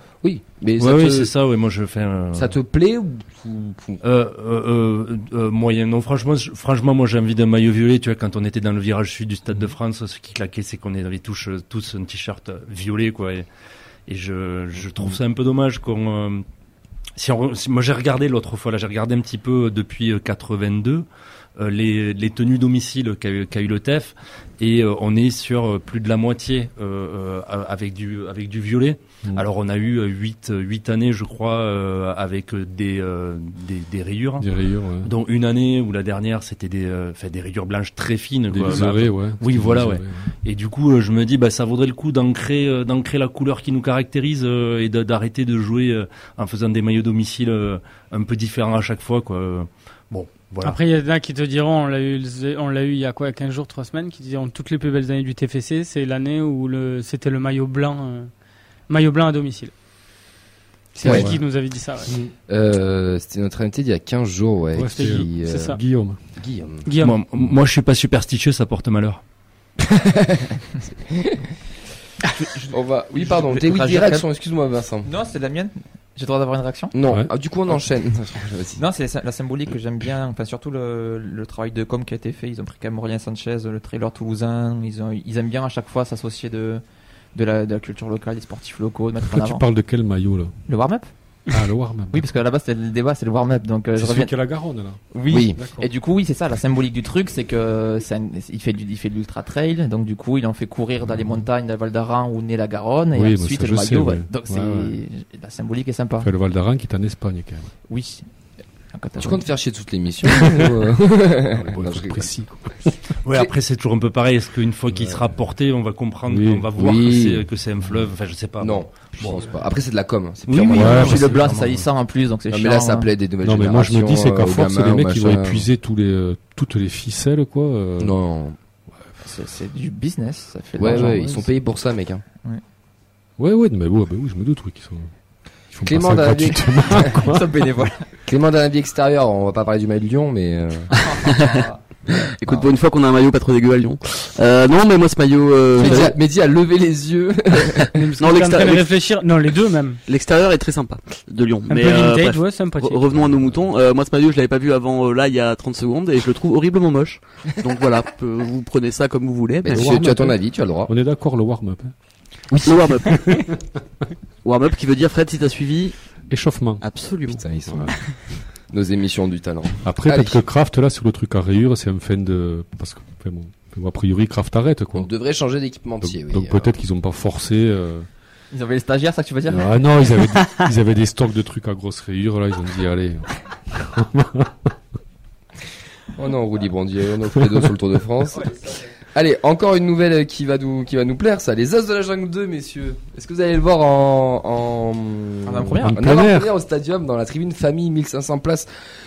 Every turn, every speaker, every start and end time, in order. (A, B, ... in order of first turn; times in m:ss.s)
0:00.2-0:01.3 A
0:00.8-0:02.5 B
0:02.3-0:04.0 A
0:04.0-0:13.5 B
0:14.1-0:16.4 B
0:17.2-0:34.5 B
0:34.4-0:35.1 C
0:35.0-0:50.8 B
0:38.5-0:40.3 C
0:50.6-0:58.3 D
0:58.9-0:59.7 D
1:00.9-1:02.1 D
1:01.0-1:01.3 A
1:01.0-1:01.4 C
1:02.5-1:05.8 A
1:04.7-1:06.2 C
1:04.9-1:05.8 D
1:06.3-1:06.9 A
1:06.8-1:07.2 D
1:07.0-1:09.2 B
1:10.0-1:10.6 A
1:11.1-1:11.4 A
1:12.2-1:14.3 E
1:12.7-1:15.1 A
1:15.0-1:16.9 E
1:16.9-1:18.8 A
1:18.8-1:26.8 E
1:27.3-1:29.6 E
1:29.3-1:30.5 C
1:30.7-1:31.1 E
1:31.5-1:32.3 C
1:32.1-1:34.4 E
1:34.0-1:35.9 C
1:35.1-1:46.3 E
1:35.3-1:35.6 A
1:43.1-1:45.0 C
1:46.2-1:47.7 C
1:47.9-1:48.3 E
1:48.9-1:49.4 E
1:49.2-1:52.3 A
1:50.2-1:50.8 C
1:51.5-1:52.9 C
1:53.2-1:59.4 B
1:56.3-1:56.7 C
1:56.7-1:57.5 A
1:58.6-2:01.2 A
2:00.5-2:01.9 B
2:00.7-2:03.1 E
2:00.8-2:01.3 C
2:02.5-2:05.7 A
2:03.4-2:08.2 C
2:08.0-2:08.6 A
2:09.2-2:11.5 E
2:10.8-2:12.2 A
2:13.4-2:15.1 C
2:15.7-2:17.4 C
2:15.8-2:17.2 A
2:17.1-2:18.1 E
2:18.2-2:21.3 A
2:21.1-2:21.8 E
2:21.2-2:21.6 F
2:22.2-2:26.2 F
2:22.4-2:22.8 A
2:25.8-2:28.1 A
2:27.9-2:30.0 D
2:28.2-2:28.9 F
2:30.1-2:39.9 F
2:31.6-2:33.1 D
2:39.6-2:40.9 A
2:39.7-2:41.9 C
2:42.5-2:42.9 A
2:42.6-2:43.1 F
2:44.4-2:46.0 F
2:46.3-2:46.8 C
2:46.8-2:47.4 F
2:47.3-2:47.9 A
2:47.7-2:48.0 C
2:48.7-2:50.4 A
2:49.8-2:55.1 C
2:54.9-2:56.7 A
2:56.0-2:58.1 C
2:58.5-2:59.8 E
2:59.5-3:04.5 C
3:06.2-3:08.5 A
3:09.1-3:18.7 A
3:15.4-3:16.0 E
3:15.8-3:16.5 C